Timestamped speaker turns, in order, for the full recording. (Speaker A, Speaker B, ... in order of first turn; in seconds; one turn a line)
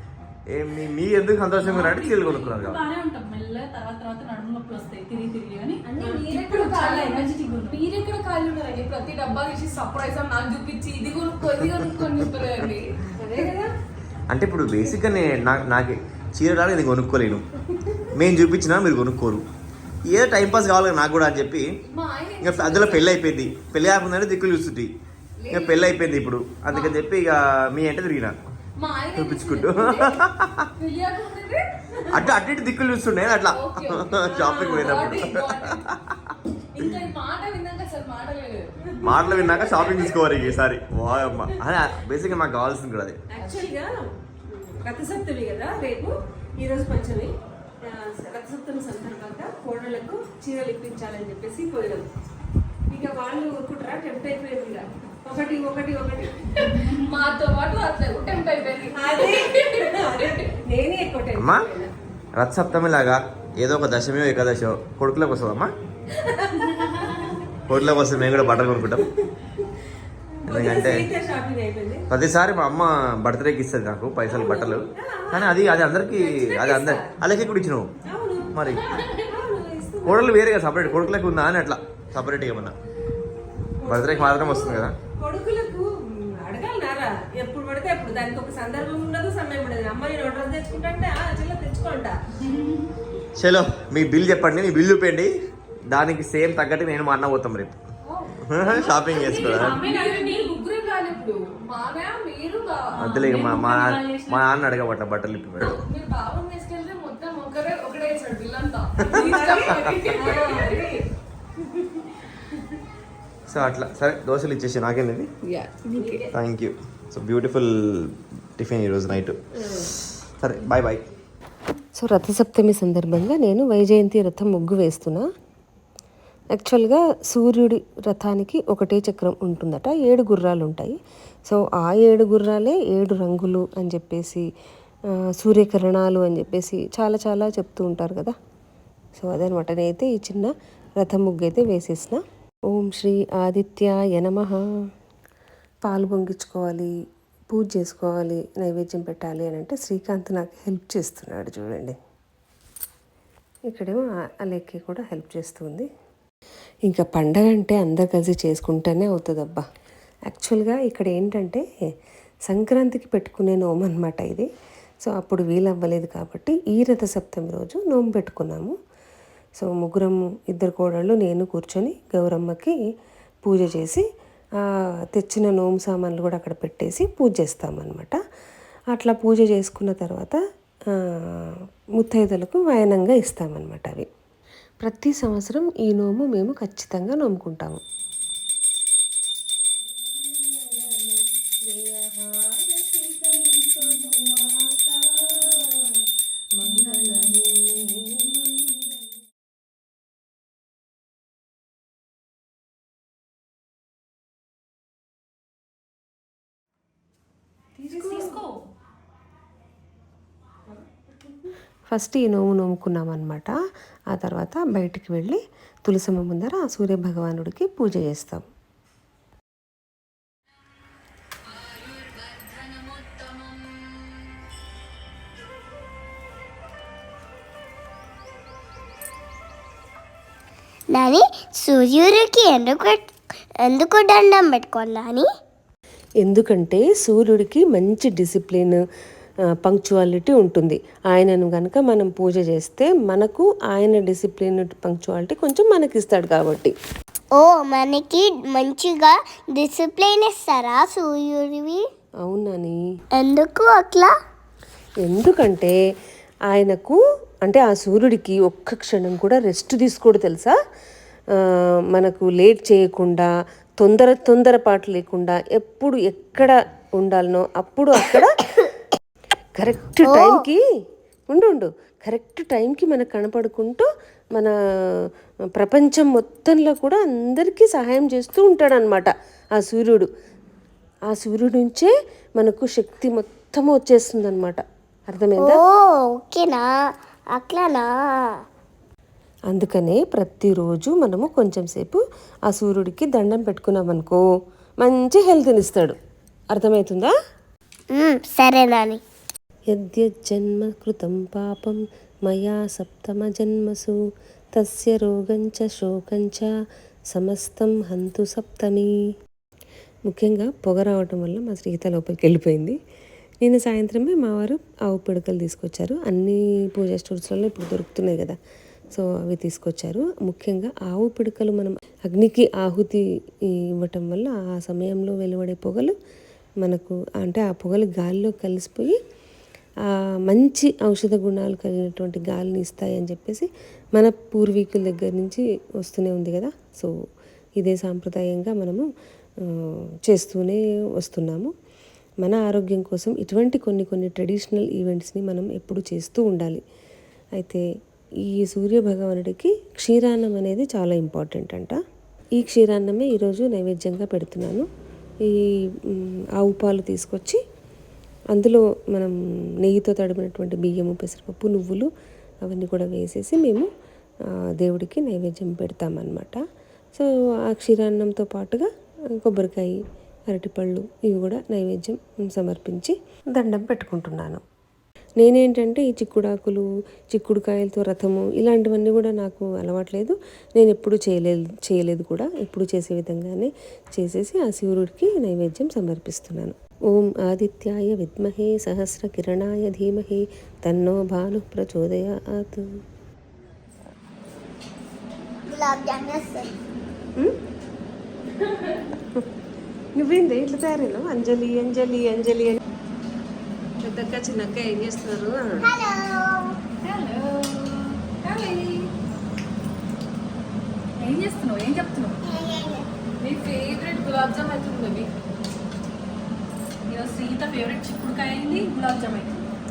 Speaker A: 0.5-2.8
Speaker B: 1.6-7.8
Speaker C: 6.0-13.5
Speaker A: 11.5-12.6
Speaker D: 13.2-13.7
Speaker A: 14.3-17.4
Speaker A: 18.1-19.4
Speaker A: 20.0-21.6
Speaker C: 21.9-23.2
Speaker A: 22.4-24.9
Speaker C: 25.4-26.0
Speaker A: 25.5-28.3
Speaker C: 26.7-27.0
Speaker C: 28.8-30.2
Speaker A: 29.1-30.7
Speaker C: 30.8-31.6
Speaker A: 32.1-36.2
Speaker C: 33.5-35.8
Speaker C: 36.7-38.7
Speaker A: 39.0-43.2
Speaker C: 39.3-40.4
Speaker D: 43.3-43.9
Speaker C: 43.4-43.7
Speaker D: 44.5-47.3
Speaker D: 47.9-52.0
Speaker D: 52.9-56.7
Speaker C: 56.7-60.5
Speaker D: 58.9-61.9
Speaker A: 61.4-61.7
Speaker A: 62.3-65.7
Speaker D: 66.3-67.3
Speaker A: 67.7-69.0
Speaker D: 68.2-69.5
Speaker D: 70.4-72.1
Speaker A: 70.5-71.1
Speaker A: 72.1-77.9
Speaker D: 74.3-77.1
Speaker D: 78.0-81.1
Speaker A: 78.5-78.8
Speaker A: 80.0-82.8
Speaker D: 83.8-85.8
Speaker A: 83.8-84.9
Speaker D: 86.3-92.2
Speaker A: 93.4-95.3
Speaker A: 95.9-97.8
Speaker C: 98.1-103.0
Speaker A: 98.5-99.8
Speaker B: 99.1-100.6
Speaker B: 103.0-104.4
Speaker A: 103.0-105.8
Speaker C: 105.6-111.0
Speaker D: 109.0-111.0
Speaker A: 109.1-109.9
Speaker A: 113.5-115.3
Speaker C: 115.6-116.3
Speaker D: 115.9-116.3
Speaker A: 116.3-121.0
Speaker D: 122.0-125.3
Speaker D: 126.5-131.0
Speaker D: 131.5-134.4
Speaker D: 135.1-138.3
Speaker D: 139.2-144.6
Speaker D: 145.8-146.9
Speaker D: 147.5-151.9
Speaker D: 153.7-155.9
Speaker D: 156.9-159.6
Speaker D: 160.3-161.6
Speaker D: 162.4-164.5
Speaker D: 165.0-168.7
Speaker D: 169.6-172.8
Speaker D: 173.4-174.0
Speaker D: 175.1-178.2
Speaker D: 178.9-180.4
Speaker D: 180.9-184.1
Speaker D: 184.8-187.8
Speaker D: 190.1-196.0
Speaker D: 196.6-199.1
Speaker D: 207.8-208.4
Speaker B: 207.9-208.6
Speaker D: 211.9-213.5
Speaker D: 214.1-218.4
Speaker E: 230.9-233.1
Speaker E: 233.6-235.3
Speaker D: 236.2-238.8
Speaker D: 239.6-246.7
Speaker E: 247.3-251.8
Speaker D: 252.2-252.8
Speaker E: 253.2-254.1
Speaker D: 255.0-255.7
Speaker D: 256.5-260.6
Speaker D: 261.9-263.3
Speaker D: 263.8-268.7
Speaker D: 269.6-270.6
Speaker E: 270.0-270.4
Speaker D: 271.3-280.1
Speaker D: 281.1-285.6
Speaker E: 285.4-286.7
Speaker E: 287.3-288.4
Speaker D: 289.5-294.2
Speaker D: 294.8-295.9
Speaker D: 296.5-297.1
Speaker E: 297.9-299.0
Speaker D: 299.7-303.9
Speaker D: 304.5-306.5
Speaker D: 307.1-308.9
Speaker D: 310.1-312.8
Speaker D: 313.4-318.4
Speaker D: 318.9-323.0
Speaker D: 323.6-325.9
Speaker D: 326.6-328.9
Speaker D: 330.3-336.9
Speaker D: 337.6-338.9
Speaker D: 339.4-341.5
Speaker D: 342.2-346.6
Speaker D: 347.4-347.6
Speaker D: 348.3-351.8
Speaker D: 352.4-354.7
Speaker D: 355.2-357.4
Speaker D: 358.3-361.9
Speaker D: 362.4-363.7
Speaker D: 364.6-366.4
Speaker D: 366.9-368.6
Speaker D: 369.2-369.8
Speaker D: 370.3-374.4
Speaker D: 375.2-392.6
Speaker E: 395.5-396.5
Speaker D: 399.9-402.6
Speaker D: 403.8-405.7
Speaker E: 405.6-406.6
Speaker B: 406.8-408.5
Speaker C: 408.3-408.7
Speaker B: 411.0-412.2
Speaker E: 412.2-412.9
Speaker C: 413.2-415.1
Speaker B: 416.9-419.5